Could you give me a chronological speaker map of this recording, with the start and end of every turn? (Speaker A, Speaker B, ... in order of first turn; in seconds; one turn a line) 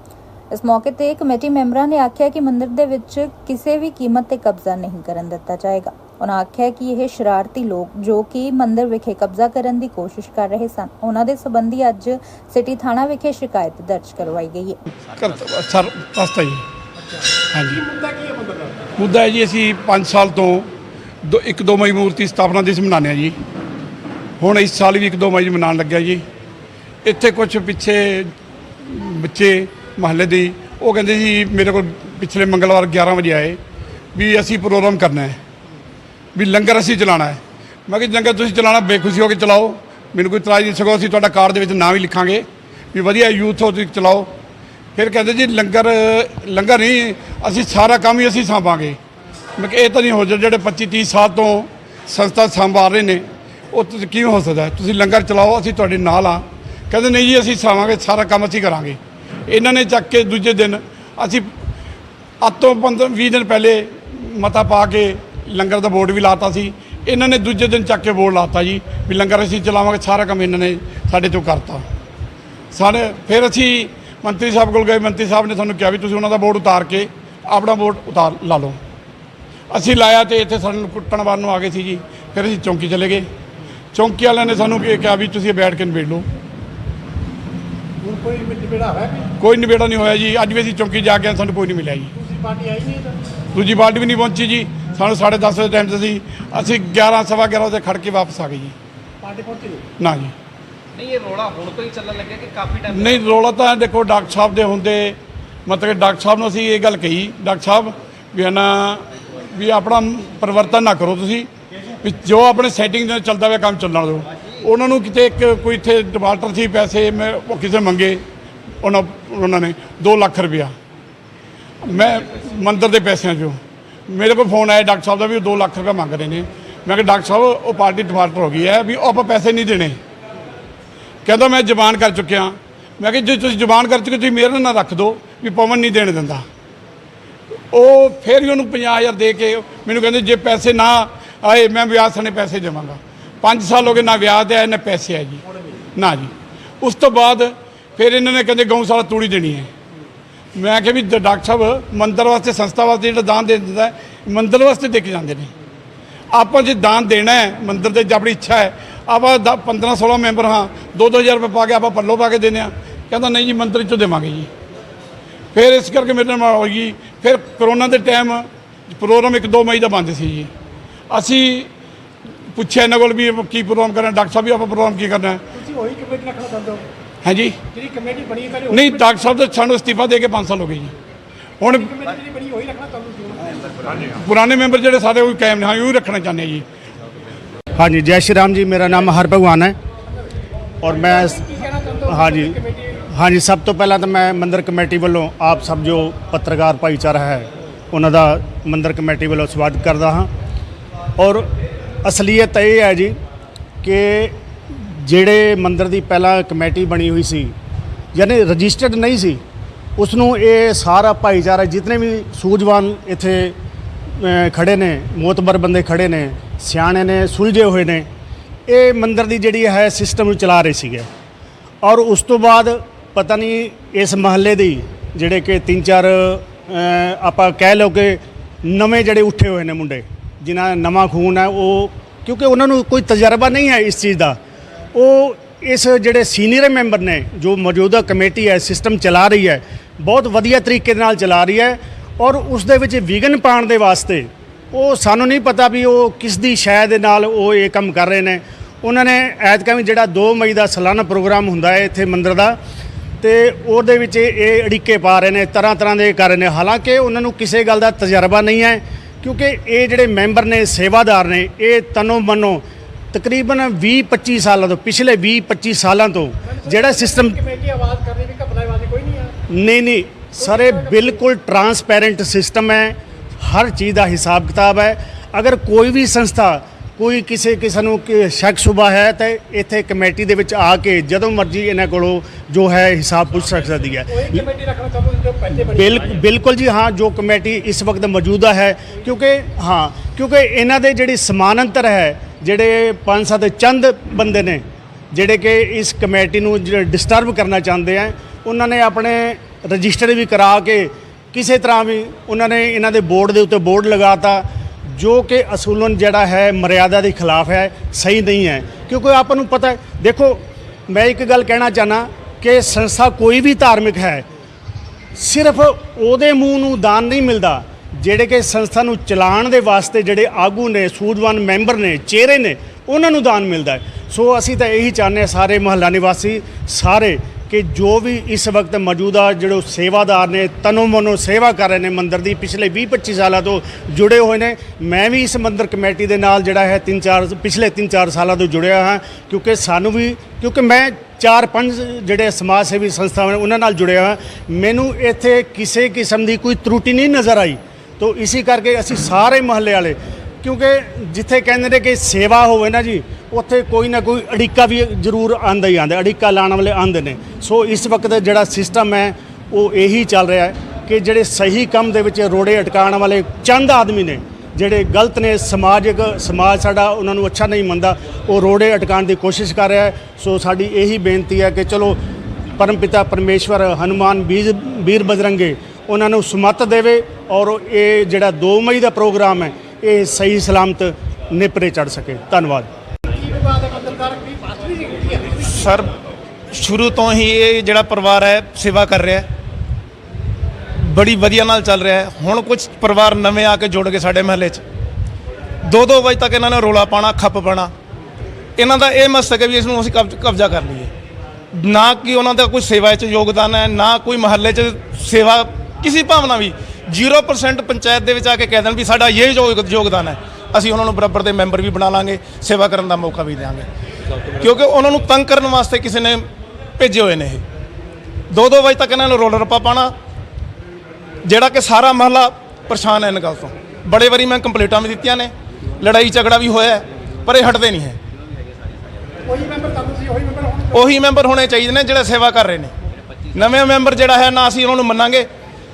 Speaker A: 0.5-14.8
Speaker B: 15.1-16.6
Speaker B: 17.5-17.8
Speaker C: 17.7-18.8
Speaker B: 19.0-20.7
Speaker B: 21.2-23.4
Speaker B: 24.4-26.2
Speaker B: 27.0-28.3
Speaker B: 28.8-33.6
Speaker B: 34.1-35.4
Speaker B: 36.3-44.3
Speaker B: 44.9-49.0
Speaker B: 49.6-61.5
Speaker B: 62.4-71.8
Speaker B: 72.7-78.8
Speaker B: 79.7-83.3
Speaker B: 83.9-86.3
Speaker C: 88.0-89.3
Speaker B: 89.4-92.1
Speaker C: 92.2-93.2
Speaker B: 93.5-98.7
Speaker C: 99.2-99.8
Speaker B: 100.0-100.3
Speaker D: 101.0-102.9
Speaker B: 102.9-111.5
Speaker B: 112.0-118.2
Speaker B: 118.8-120.7
Speaker B: 121.8-130.0
Speaker B: 131.2-136.4
Speaker B: 137.7-145.4
Speaker B: 145.9-149.7
Speaker B: 150.5-155.5
Speaker B: 156.3-164.5
Speaker B: 165.5-170.5
Speaker B: 171.1-171.7
Speaker B: 172.5-175.4
Speaker C: 175.5-176.8
Speaker B: 177.2-177.6
Speaker C: 177.7-179.2
Speaker B: 178.7-180.9
Speaker C: 181.6-184.0
Speaker B: 184.1-186.6
Speaker E: 187.8-189.8
Speaker E: 190.8-191.4
Speaker C: 191.3-192.9
Speaker E: 192.1-192.6
Speaker E: 193.1-200.3
Speaker E: 201.2-201.5
Speaker E: 202.0-203.1
Speaker E: 203.8-207.5
Speaker E: 208.1-209.4
Speaker E: 210.0-213.5
Speaker E: 214.2-218.1
Speaker E: 218.7-221.1
Speaker E: 221.8-234.4
Speaker E: 234.9-252.6
Speaker E: 253.2-267.4
Speaker C: 266.6-269.4
Speaker E: 269.5-284.4
Speaker C: 270.4-271.1
Speaker C: 284.1-285.8
Speaker E: 285.6-314.2
Speaker E: 315.1-372.0
Speaker E: 372.6-382.7
Speaker C: 383.1-385.5
Speaker D: 385.4-385.9
Speaker D: 386.5-389.2
Speaker D: 390.8-394.6
Speaker D: 395.6-397.7
Speaker D: 398.6-400.9
Speaker D: 401.5-413.7
Speaker D: 414.4-416.2
Speaker D: 416.8-417.4
Speaker D: 418.3-419.9
Speaker D: 421.2-428.0
Speaker C: 429.2-430.9
Speaker D: 430.7-432.7
Speaker D: 433.3-435.3